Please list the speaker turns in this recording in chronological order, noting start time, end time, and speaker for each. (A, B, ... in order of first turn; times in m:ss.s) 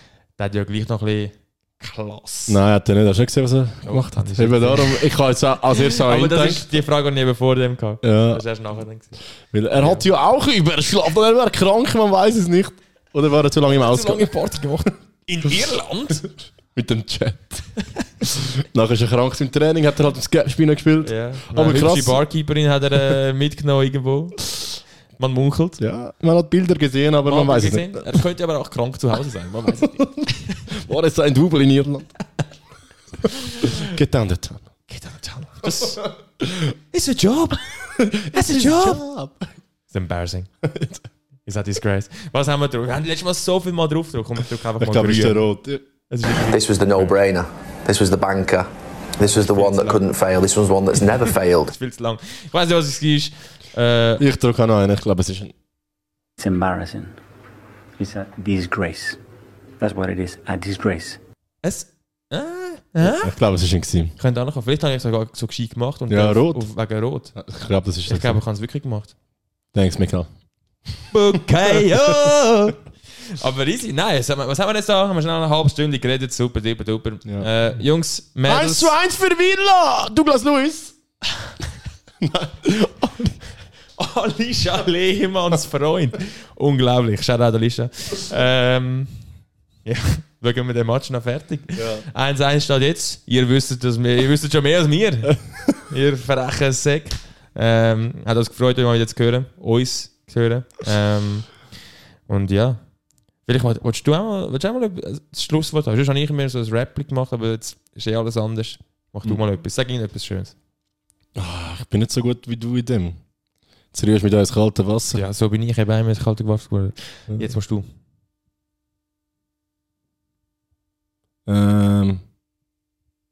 0:00.4-0:02.6 A
0:02.5-0:06.6 B
0:03.8-0:05.1 A
0:05.7-0:09.2 A
0:08.0-0:08.4 B
0:09.5-0:14.9 B
0:09.7-0:10.1 A
0:13.8-0:16.3 A
0:16.7-0:17.6 B
0:18.2-0:22.2 B
0:21.0-0:24.4 A
0:25.2-0:25.8 A
0:25.8-0:28.2 B
0:27.2-0:30.7 A
0:30.0-0:32.1 B
0:33.4-0:33.9 A
0:33.6-0:34.7 B
0:34.9-0:36.0 A
0:35.7-0:36.7 B
0:36.9-0:39.0 A
0:37.9-0:39.5 B
0:39.9-0:40.5 A
0:40.6-0:41.0 B
0:41.4-0:45.4 A
0:44.8-0:45.8 B
0:46.1-0:47.2 A
0:46.4-0:48.7 C
0:49.2-0:51.7 C
0:49.2-0:50.0 A
0:51.6-0:54.2 A
0:54.2-0:55.5 B
0:56.4-0:57.1 D
0:58.0-0:59.2 D
0:59.8-1:01.2 D
1:01.6-1:03.3 A
1:03.0-1:04.1 B
1:04.2-1:07.3 A
1:06.1-1:06.6 B
1:07.3-1:08.4 B
1:08.1-1:09.1 A
1:09.7-1:10.3 B
1:11.1-1:18.9 A
1:11.6-1:12.4 B
1:18.4-1:20.9 B
1:22.2-1:23.4 B
1:24.0-1:29.2 A
1:29.8-1:41.6 A
1:31.8-1:32.0 B
1:42.3-1:42.8 A
1:43.4-1:50.5 A
1:51.3-1:53.2 B
1:53.9-1:55.2 B
1:55.1-1:57.8 A
2:01.4-2:02.2 B